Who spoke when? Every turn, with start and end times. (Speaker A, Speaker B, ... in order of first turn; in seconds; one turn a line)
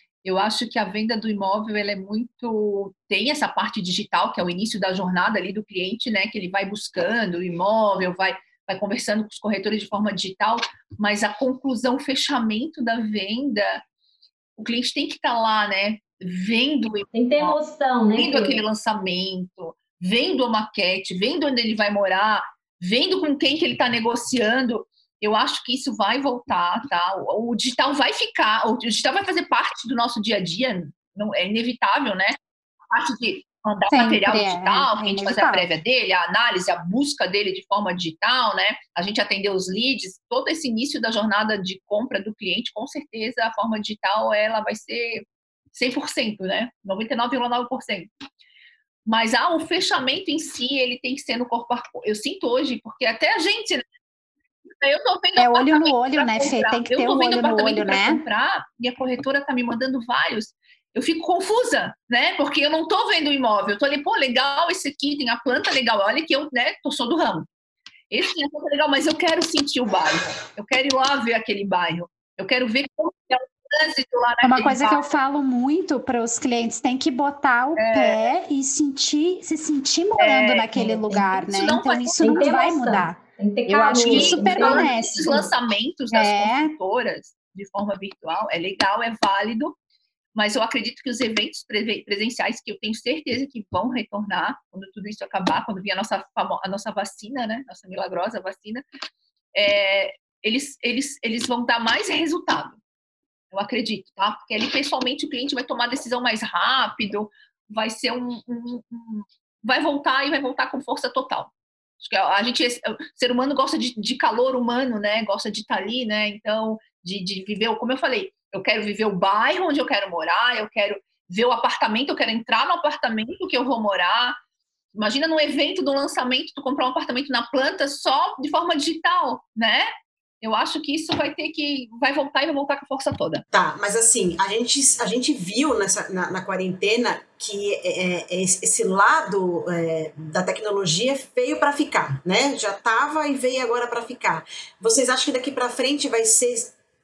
Speaker A: 0.2-13.8
Speaker A: 14.6-17.6
Speaker B: 17.1-18.6
Speaker A: 18.1-32.4
Speaker A: 32.9-48.1
Speaker C: 33.9-35.7
Speaker A: 49.1-53.8
Speaker A: 54.8-67.5
Speaker C: 55.4-58.2
Speaker A: 68.1-75.0
Speaker C: 74.4-85.4
Speaker A: 77.8-78.3
Speaker A: 80.2-80.8
Speaker B: 80.8-81.4
Speaker A: 81.4-82.5
Speaker B: 82.2-85.5
Speaker A: 84.0-89.8
Speaker C: 86.1-86.7
Speaker A: 90.3-98.8
Speaker A: 99.5-102.8
Speaker A: 103.5-124.4
Speaker A: 125.0-129.9
Speaker A: 130.4-133.4
Speaker D: 133.5-146.8